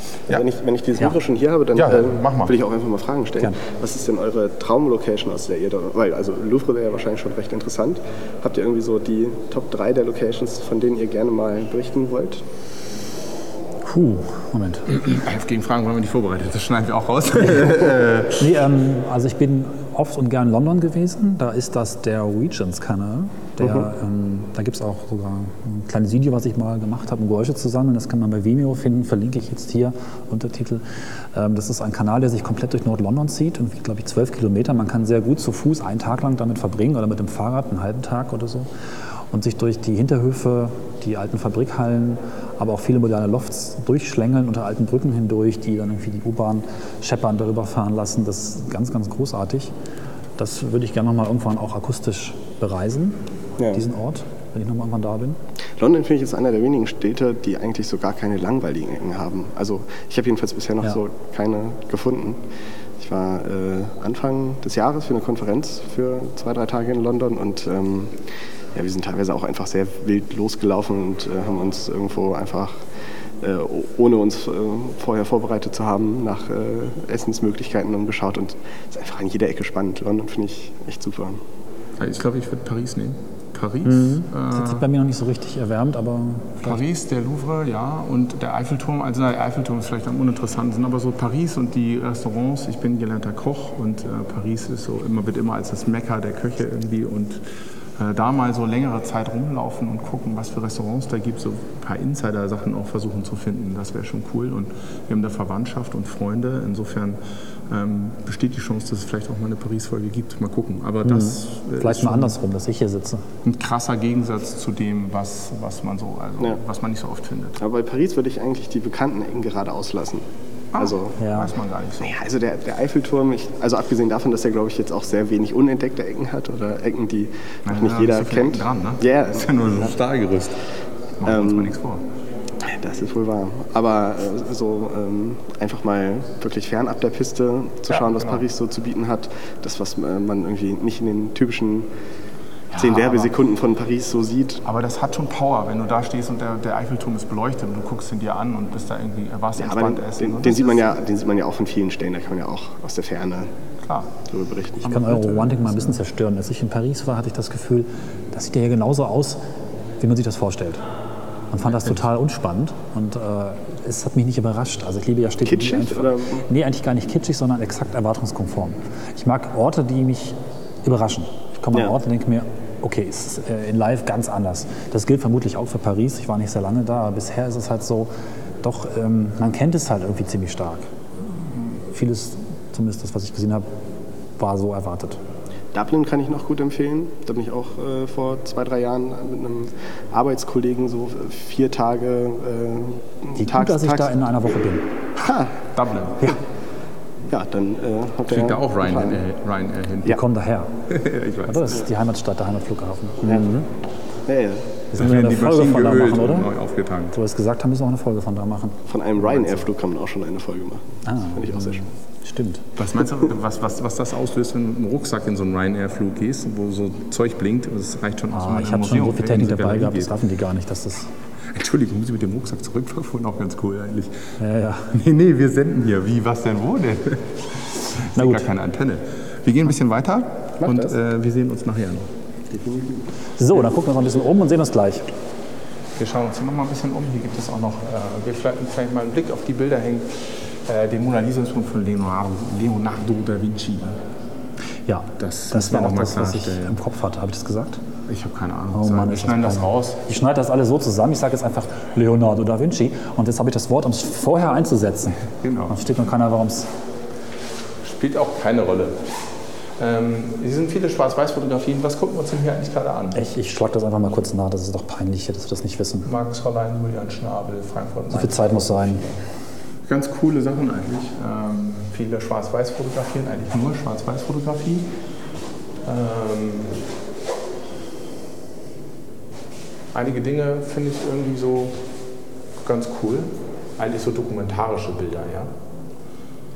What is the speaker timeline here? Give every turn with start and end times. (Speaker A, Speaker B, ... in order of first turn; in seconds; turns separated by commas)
Speaker A: 0.3-12.4, Speaker B: 1.7-2.5, Speaker C: 13.8-14.9, Speaker B: 14.9-18.5, Speaker C: 18.4-38.7, Speaker A: 23.6-23.9, Speaker C: 39.3-49.7, Speaker C: 50.4-53.2, Speaker C: 53.7-55.4, Speaker A: 55.8-62.4, Speaker A: 63.0-68.1, Speaker A: 68.7-72.8, Speaker A: 73.4-81.4, Speaker B: 82.0-84.8, Speaker C: 83.8-86.8, Speaker B: 86.6-97.4, Speaker B: 98.0-107.2, Speaker B: 107.7-112.3, Speaker C: 111.0-113.2, Speaker B: 113.4-117.6, Speaker A: 117.6-120.2, Speaker B: 120.7-122.2, Speaker A: 120.8-121.2, Speaker C: 121.2-121.5, Speaker A: 122.0-129.5, Speaker B: 127.7-130.6, Speaker B: 131.2-132.0, Speaker A: 131.2-131.7, Speaker A: 132.6-141.9, Speaker B: 137.9-138.4, Speaker B: 142.7-143.3, Speaker A: 142.7-144.6, Speaker B: 144.6-150.9, Speaker A: 149.6-153.5, Speaker B: 153.8-154.1, Speaker A: 154.3-154.9, Speaker B: 154.8-156.0, Speaker C: 154.9-159.4, Speaker C: 160.0-160.8, Speaker C: 161.5-178.1, Speaker A: 165.4-166.4, Speaker C: 178.6-180.9, Speaker C: 181.7-183.7, Speaker C: 184.4-185.2, Speaker A: 185.7-194.2, Speaker C: 193.4-194.9, Speaker A: 195.2-195.5, Speaker B: 195.7-196.3, Speaker A: 197.3-199.2, Speaker B: 198.3-200.2, Speaker C: 200.1-200.7, Speaker B: 200.9-201.8, Speaker C: 201.5-203.7, Speaker A: 204.3-204.6, Speaker C: 204.9-206.5, Speaker B: 204.9-207.1, Speaker C: 207.1-208.8, Speaker A: 208.9-211.8, Speaker C: 211.0-212.6, Speaker B: 212.8-220.1, Speaker C: 218.3-221.1, Speaker B: 221.5-224.1, Speaker C: 224.4-224.9, Speaker B: 224.9-232.1, Speaker C: 228.2-228.4, Speaker A: 232.6-232.8, Speaker C: 233.4-235.1, Speaker B: 236.0-244.0, Speaker C: 244.9-247.8, Speaker B: 245.2-246.8, Speaker B: 248.1-250.0, Speaker C: 248.7-256.7, Speaker B: 255.4-255.8, Speaker B: 257.8-259.0, Speaker B: 259.8-263.2, Speaker C: 263.1-266.1, Speaker B: 266.0-269.0, Speaker C: 268.1-269.0, Speaker B: 269.9-274.9, Speaker B: 275.9-276.8, Speaker B: 279.9-281.8, Speaker B: 282.6-285.5